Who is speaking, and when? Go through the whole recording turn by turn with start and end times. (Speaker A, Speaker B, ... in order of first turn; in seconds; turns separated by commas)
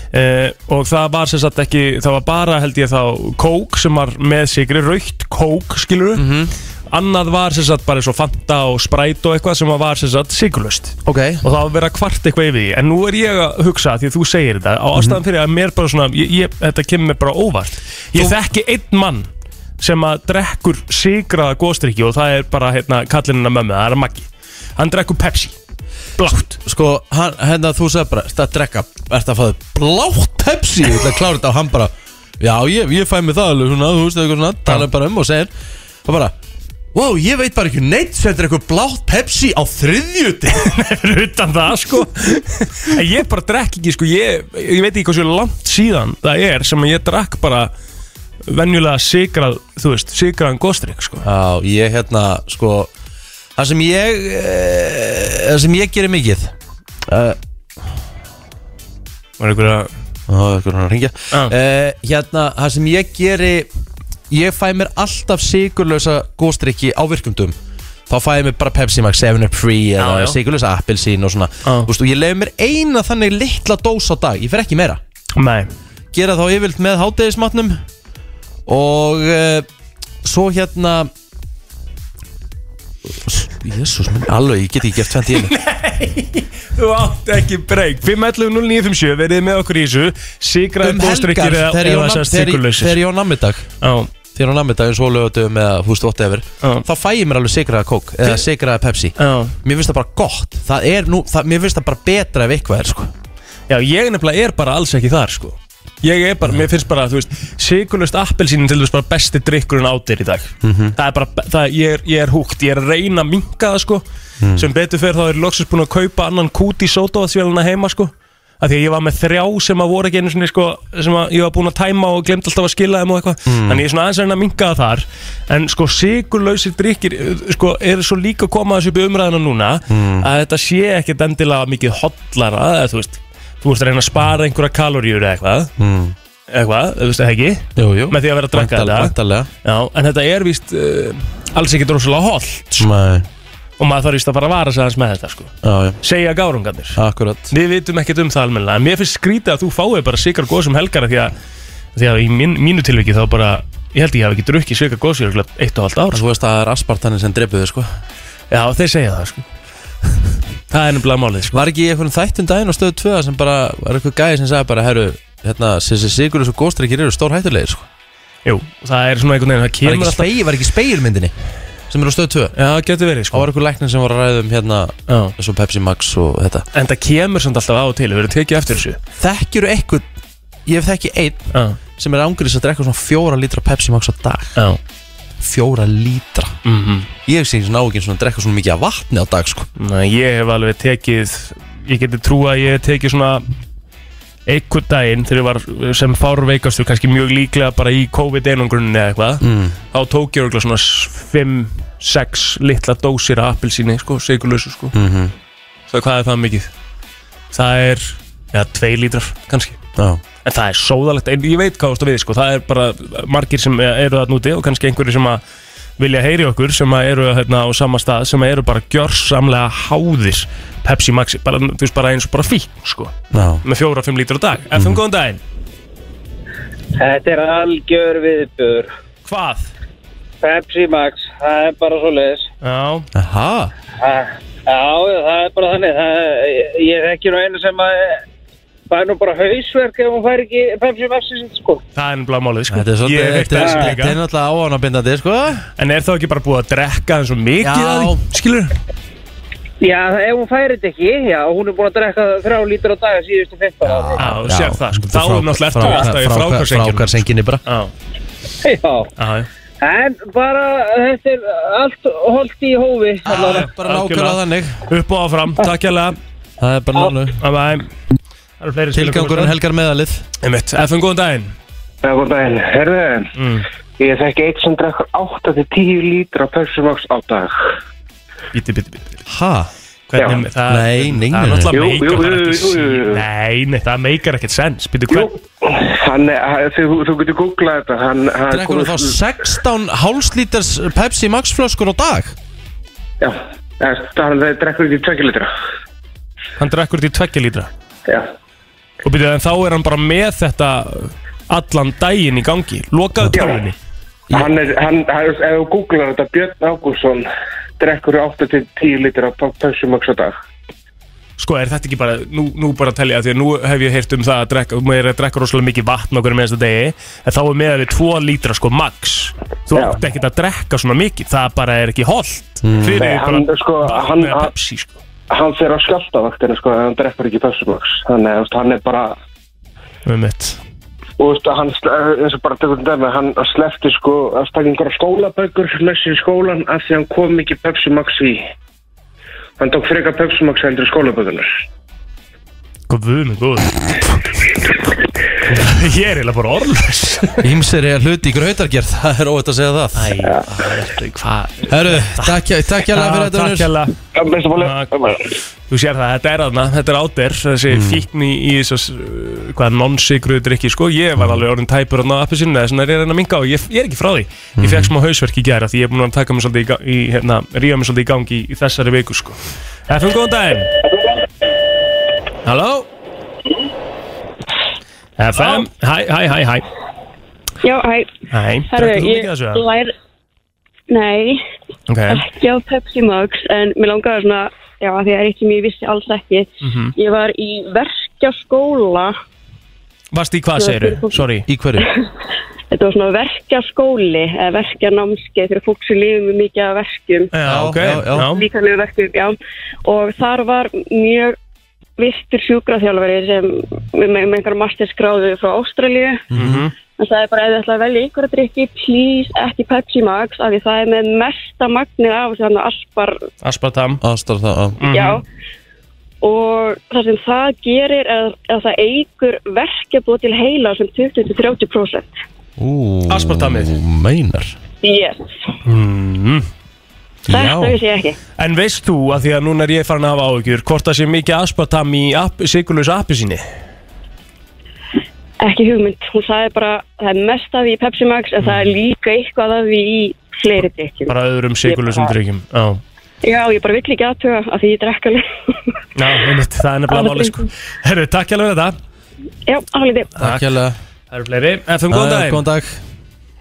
Speaker A: 0.1-6.2, Speaker B: 6.1-6.5, Speaker A: 6.9-19.3, Speaker B: 11.1-11.4, Speaker A: 19.8-25.6, Speaker A: 26.2-26.5, Speaker B: 26.2-35.5, Speaker B: 36.0-36.3, Speaker B: 36.9-40.7, Speaker A: 40.5-47.7, Speaker A: 48.5-51.2, Speaker B: 51.2-52.9, Speaker B: 53.6-56.5, Speaker B: 57.1-57.4, Speaker A: 59.4-59.9, Speaker B: 60.3-63.7, Speaker B: 64.3-67.5, Speaker B: 68.1-75.0, Speaker A: 70.0-70.4, Speaker A: 75.4-75.7, Speaker B: 76.1-77.8, Speaker B: 78.7-79.7, Speaker B: 80.2-81.1, Speaker B: 83.1-85.5, Speaker A: 85.3-93.0, Speaker B: 90.8-93.7, Speaker A: 93.8-94.1, Speaker B: 94.3-103.1, Speaker A: 99.2-99.5, Speaker A: 103.7-114.0, Speaker B: 110.6-110.9, Speaker B: 114.4-114.7, Speaker A: 114.5-135.7, Speaker B: 123.5-123.8, Speaker B: 129.9-130.3, Speaker B: 135.8-136.1, Speaker A: 136.5-142.9, Speaker B: 137.8-139.5, Speaker B: 142.8-143.3, Speaker A: 143.8-151.3, Speaker B: 145.6-146.0, Speaker B: 146.9-147.5, Speaker A: 151.9-156.2, Speaker B: 156.1-157.9, Speaker A: 158.5-159.4, Speaker A: 160.7-161.6, Speaker B: 161.5-167.9, Speaker A: 168.4-170.3, Speaker B: 169.8-171.3, Speaker B: 171.9-172.5, Speaker A: 172.5-173.5, Speaker B: 173.3-176.7, Speaker A: 175.1-175.3, Speaker A: 176.7-179.0, Speaker B: 179.2-180.1, Speaker B: 180.7-184.6, Speaker A: 181.5-181.8, Speaker B: 185.4-186.6, Speaker A: 186.6-187.1, Speaker B: 187.2-189.7, Speaker A: 189.8-193.5, Speaker A: 194.5-204.9, Speaker B: 199.4-199.8, Speaker B: 204.9-205.3, Speaker A: 205.9-206.7, Speaker A: 207.5-209.8, Speaker A: 210.4-215.4, Speaker A: 216.0-225.4, Speaker B: 223.3-223.6, Speaker B: 224.7-225.0, Speaker C: 227.0-228.9, Speaker A: 229.2-229.7, Speaker C: 230.4-232.5, Speaker A: 232.6-233.1, Speaker B: 233.1-233.7, Speaker C: 234.0-238.2, Speaker C: 238.9-241.8, Speaker A: 241.9-244.2, Speaker B: 242.7-245.7, Speaker C: 243.6-243.9, Speaker A: 245.8-248.7, Speaker B: 247.6-248.2, Speaker C: 249.8-254.2, Speaker B: 253.8-257.6, Speaker A: 254.2-257.9, Speaker C: 258.6-259.1, Speaker A: 259.1-259.5, Speaker C: 259.8-263.6, Speaker B: 263.2-264.8, Speaker A: 263.3-266.2, Speaker B: 266.6-267.4, Speaker A: 267.4-267.9, Speaker A: 268.6-269.6, Speaker B: 268.9-270.2, Speaker A: 270.4-271.5, Speaker D: 272.0-273.3, Speaker A: 273.4-273.6, Speaker D: 274.0-277.5, Speaker A: 278.5-279.2, Speaker B: 279.3-279.7, Speaker A: 280.1-285.3, Speaker B: 280.7-281.7, Speaker D: 281.7-283.2, Speaker D: 285.1-289.1, Speaker B: 288.5-292.4, Speaker D: 293.2-295.5, Speaker A: 296.6-297.7, Speaker A: 299.0-303.7, Speaker D: 304.3-307.2, Speaker D: 307.8-310.4, Speaker A: 311.4-325.0, Speaker B: 322.6-323.1, Speaker D: 322.9-324.5, Speaker D: 325.3-329.1, Speaker A: 330.1-330.6, Speaker D: 331.2-338.4, Speaker D: 339.6-341.5, Speaker A: 342.9-343.8, Speaker A: 345.4-347.4, Speaker B: 347.4-350.2, Speaker A: 349.9-353.9, Speaker B: 351.7-353.7, Speaker D: 354.1-355.2, Speaker A: 354.6-354.9, Speaker A: 355.7-370.7, Speaker B: 357.7-358.1, Speaker B: 364.6-364.9, Speaker A: 372.4-372.9, Speaker A: 375.2-376.6, Speaker E: 377.6-378.1, Speaker A: 378.3-379.6, Speaker E: 378.7-379.9, Speaker E: 380.9-381.4, Speaker A: 381.9-382.2, Speaker E: 382.1-389.1, Speaker A: 386.6-386.9, Speaker A: 390.1-391.4, Speaker E: 390.6-391.2, Speaker B: 391.5-391.9, Speaker E: 392.7-397.3, Speaker A: 397.3-398.4, Speaker B: 397.4-398.2, Speaker E: 398.2-399.3, Speaker E: 399.8-401.4, Speaker E: 402.0-406.2, Speaker B: 406.3-406.6, Speaker A: 406.3-406.7, Speaker E: 406.9-413.2, Speaker A: 413.4-414.0, Speaker B: 414.0-414.8, Speaker A: 414.8-415.2, Speaker E: 414.9-415.2, Speaker E: 416.2-422.1, Speaker B: 422.6-424.5, Speaker A: 423.1-423.7, Speaker E: 424.8-425.3, Speaker A: 425.6-426.5, Speaker B: 427.3-427.8, Speaker E: 427.3-428.2, Speaker A: 428.4-433.4, Speaker E: 435.4-441.1, Speaker A: 438.4-438.7, Speaker A: 441.1-442.8, Speaker E: 441.6-442.1, Speaker E: 443.2-445.2, Speaker A: 445.9-448.8, Speaker E: 446.9-447.4, Speaker E: 449.5-450.1, Speaker B: 450.2-450.8, Speaker A: 451.1-452.4, Speaker B: 451.9-452.8